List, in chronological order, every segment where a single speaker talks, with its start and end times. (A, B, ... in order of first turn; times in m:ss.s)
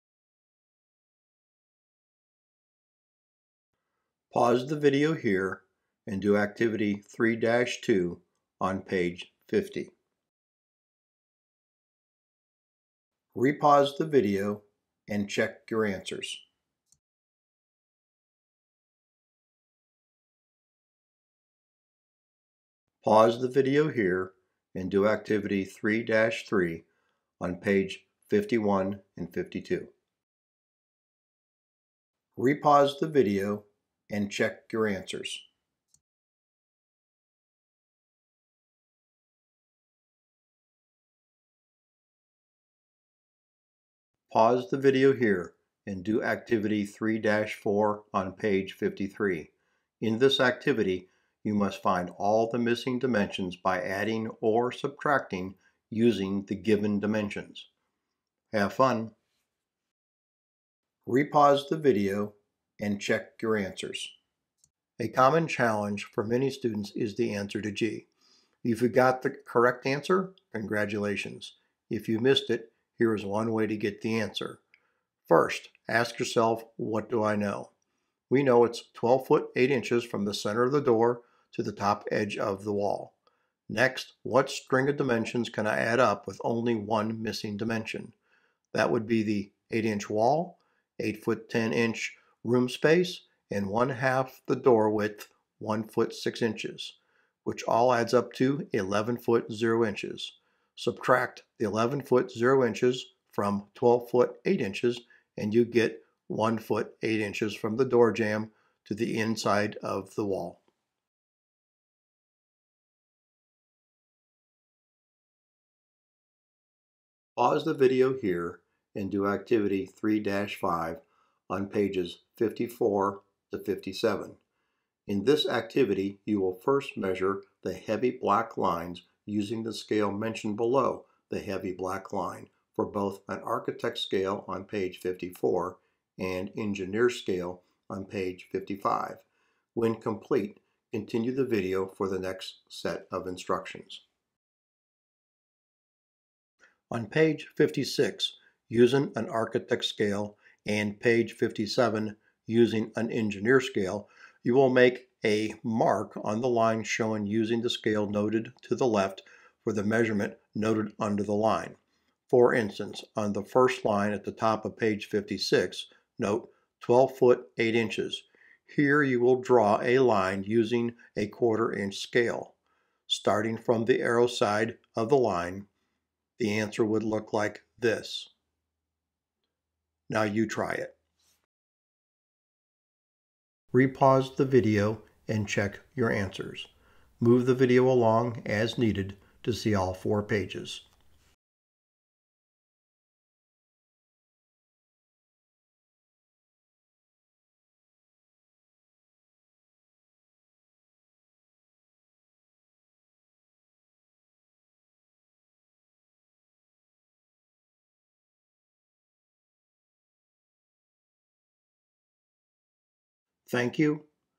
0:04.3-0:09.9 A
0:13.3-0:16.4 A
0:23.0-0:26.8 A
0:27.4-0:29.9 A
0:32.4-0:35.4 A
0:44.3-0:57.7 A
0:58.5-0:59.1 A
1:01.0-1:04.1 A
1:05.0-1:08.1 A
1:08.6-1:14.6 A
1:15.3-1:17.7 A
1:18.3-1:23.1 A
1:23.7-1:28.1 A
1:28.7-1:50.6 A
1:57.4-2:04.4 A
2:05.1-2:19.2 A
2:19.7-2:24.0 A
2:26.9-2:52.6 A
2:53.1-2:55.7 A
2:56.4-2:58.3 A
3:00.1-3:00.9 A
3:03.7-3:10.8 A
3:33.5-3:34.1 A